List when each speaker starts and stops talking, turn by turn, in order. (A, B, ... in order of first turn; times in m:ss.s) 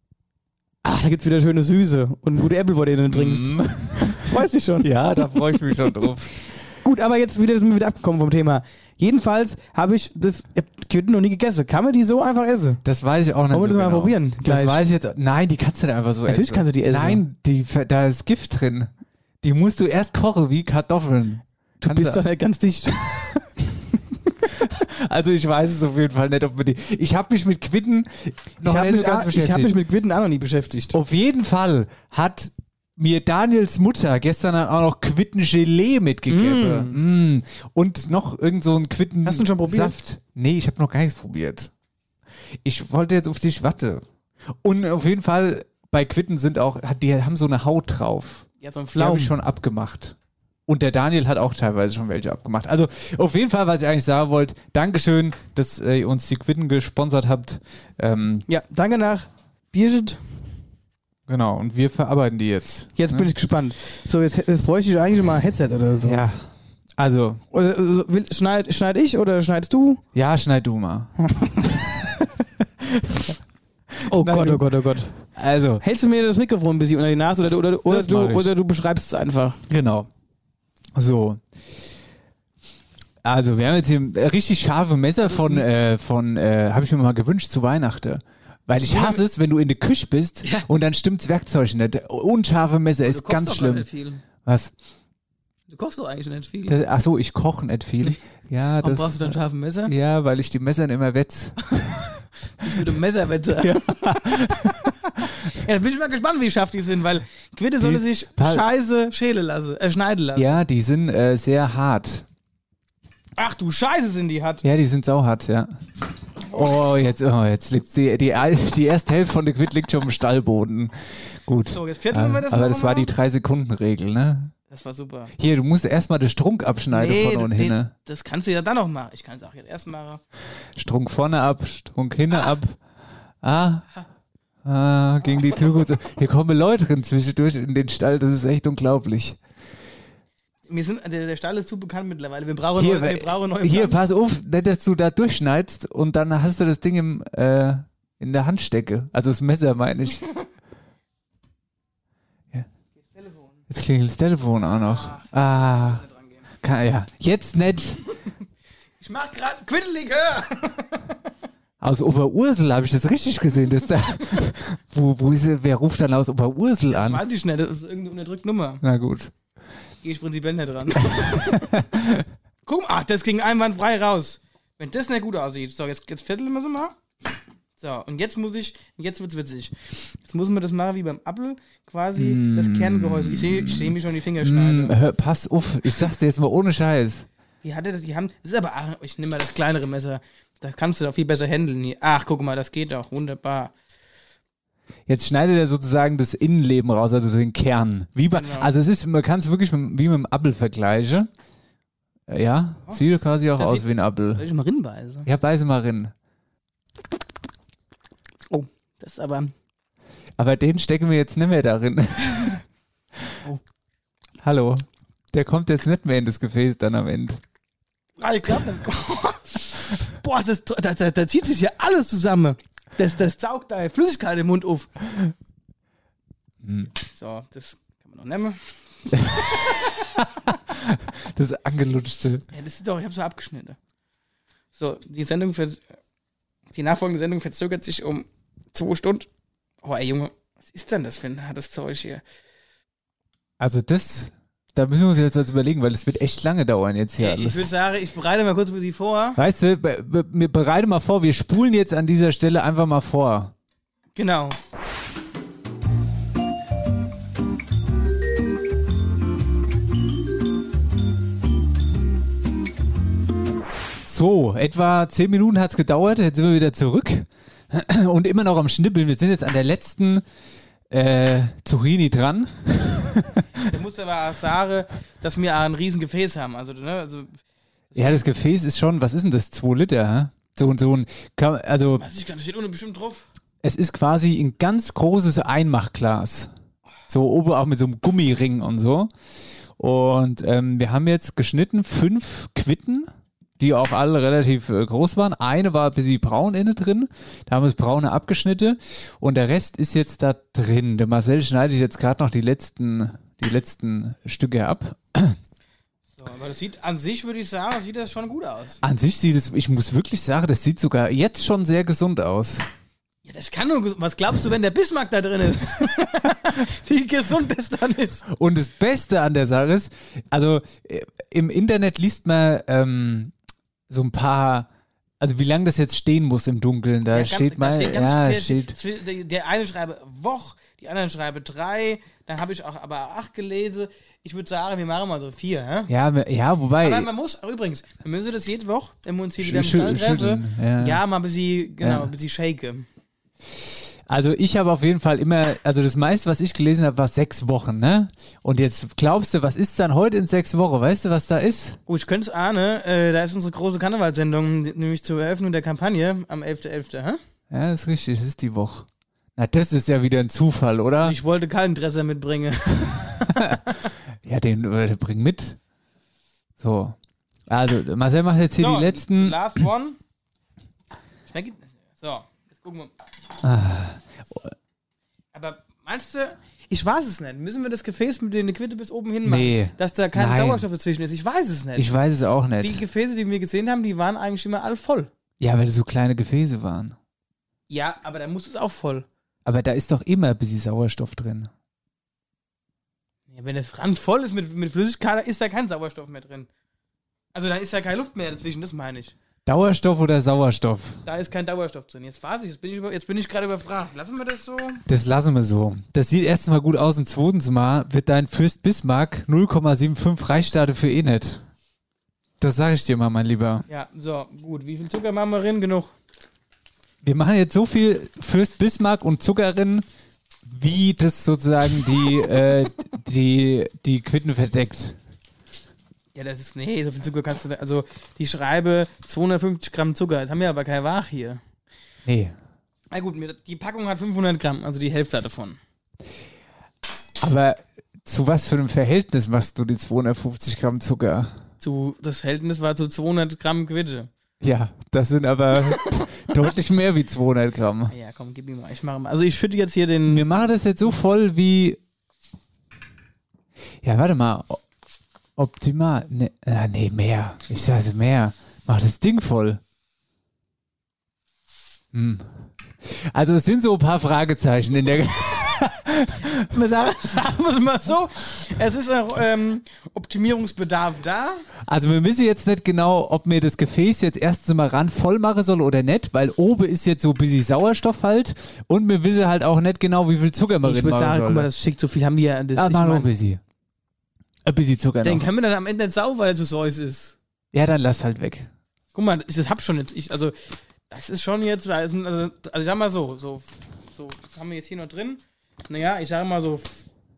0:00.8-0:04.9 A
0:03.1-0:06.5 B
0:06.8-0:12.8 A
0:12.8-0:18.9 B
0:13.5-0:14.8 A
0:16.3-0:17.2 A
0:19.4-0:22.2 B
0:21.8-0:23.4 A
0:24.5-0:29.7 B
0:28.6-0:31.0 A
0:30.9-0:41.7 B
0:36.3-0:37.0 A
0:39.2-0:40.0 A
0:42.6-0:44.0 B
0:44.6-0:50.2 B
0:48.6-0:49.3 A
0:50.7-0:58.4 B
0:58.5-1:00.2 A
1:01.3-1:03.3 B
1:03.0-1:06.2 A
1:06.0-1:07.4 B
1:07.5-1:10.0 A
1:10.1-1:11.2 B
1:11.2-1:11.7 A
1:12.0-1:13.3 B
1:14.1-1:14.7 B
1:14.1-1:15.2 A
1:15.3-1:15.8 B
1:15.8-1:19.6 A
1:17.9-1:18.5 B
1:19.7-1:20.1 B
1:21.0-1:21.4 B
1:23.2-1:33.9 B
1:25.2-1:25.7 A
1:28.8-1:29.2 A
1:33.0-1:34.2 A
1:34.4-1:34.7 B
1:35.7-1:36.8 A
1:36.7-1:42.0 B
1:38.8-1:39.9 A
1:42.6-1:44.5 A
1:43.6-1:45.4 B
1:45.5-1:50.5 A
1:47.8-1:48.6 B
1:50.4-1:52.3 B
1:53.4-1:54.6 A
1:54.6-1:55.8 B
1:56.5-2:01.0 B
2:01.5-2:04.5 B
2:01.6-2:03.1 A
2:04.7-2:05.3 A
2:05.4-2:07.9 B
2:06.9-2:10.2 A
2:10.8-2:12.8 B
2:13.4-2:13.9 B
2:14.6-2:19.4 B
2:20.7-2:24.1 A
2:22.8-2:30.2 B
2:33.0-2:33.6 A
2:33.7-2:36.0 B
2:34.9-2:36.5 A
2:36.6-2:38.0 B
2:39.0-2:41.0 A
2:41.8-2:47.2 B
2:46.9-2:48.8 A
2:48.8-2:49.3 B
2:50.0-2:51.8 A
2:51.1-2:52.2 B
2:52.7-2:57.0 A
2:57.8-3:04.9 A
3:02.2-3:07.3 B
3:07.6-3:13.7 A
3:15.1-3:21.3 B
3:18.3-3:18.7 A
3:22.3-3:24.5 B
3:22.9-3:25.3 A
3:25.2-3:26.1 B
3:28.5-3:29.5 A
3:30.4-3:32.6 B
3:34.4-3:37.4 B
3:38.2-3:45.0 A
3:46.6-3:46.9 B
3:47.0-3:48.6 A
3:49.1-3:52.4 B
3:52.5-3:53.8 A
3:54.8-3:55.8 A
3:56.7-3:59.3 A
3:59.8-4:02.2 A
4:03.6-4:07.7 B
4:07.2-4:09.4 A
4:09.4-4:13.5 B
4:14.2-4:14.6 A
4:24.0-4:30.2 B
4:30.9-4:33.6 B
4:33.6-4:37.4 A
4:37.9-4:38.3 A
4:38.0-4:42.0 B
4:42.0-4:43.3 A
4:43.6-4:46.5 B
4:47.1-4:49.1 B
4:49.8-4:53.1 B
4:53.6-5:05.4 B
5:06.2-5:08.8 A
5:08.8-5:12.7 B
5:13.3-5:18.2 A
5:18.3-5:23.3 B
5:23.9-5:24.7 B
5:25.2-5:28.8 B
5:27.1-5:35.9 A
5:35.9-5:37.1 B
5:36.8-5:42.9 A
5:39.4-5:41.0 B
5:41.8-5:42.1 B
5:43.6-5:51.8 B
5:51.9-5:57.2 A
5:57.5-6:01.2 B
6:01.0-6:03.4 A
6:03.3-6:03.6 B
6:04.2-6:05.6 B
6:06.6-6:07.0 B
6:07.5-6:09.4 B
6:08.6-6:10.0 A
6:11.3-6:12.9 A
6:13.4-6:14.5 B
6:15.3-6:22.0 A
6:19.2-6:20.7 B
6:21.8-6:22.8 B
6:22.6-6:25.1 A
6:25.4-6:27.0 B
6:27.7-6:29.1 A
6:29.4-6:31.5 B
6:33.3-6:36.5 A
6:37.3-6:39.2 A
6:39.5-6:41.0 B
6:41.0-6:44.8 A
6:44.9-6:51.4 B
6:52.4-6:53.6 B
6:53.7-6:55.9 A
6:57.0-6:59.9 B
7:00.5-7:05.0 B
7:06.2-7:11.4 A
7:12.1-7:12.4 B
7:12.9-7:15.6 A
7:17.2-7:21.4 B
7:21.6-7:24.1 A
7:24.4-7:27.9 B
7:27.9-7:30.5 A
7:30.1-7:31.8 B
7:33.8-7:34.6 B
7:35.4-7:39.6 B
7:41.9-7:42.3 B
7:42.8-7:46.5 B
7:46.5-7:51.4 A
7:51.7-8:01.5 B
8:00.6-8:03.1 A
8:02.6-8:03.4 B
8:04.4-8:05.2 B
8:05.0-8:07.2 A
8:07.5-8:08.5 B
8:08.9-8:10.3 A
8:10.9-8:16.9 A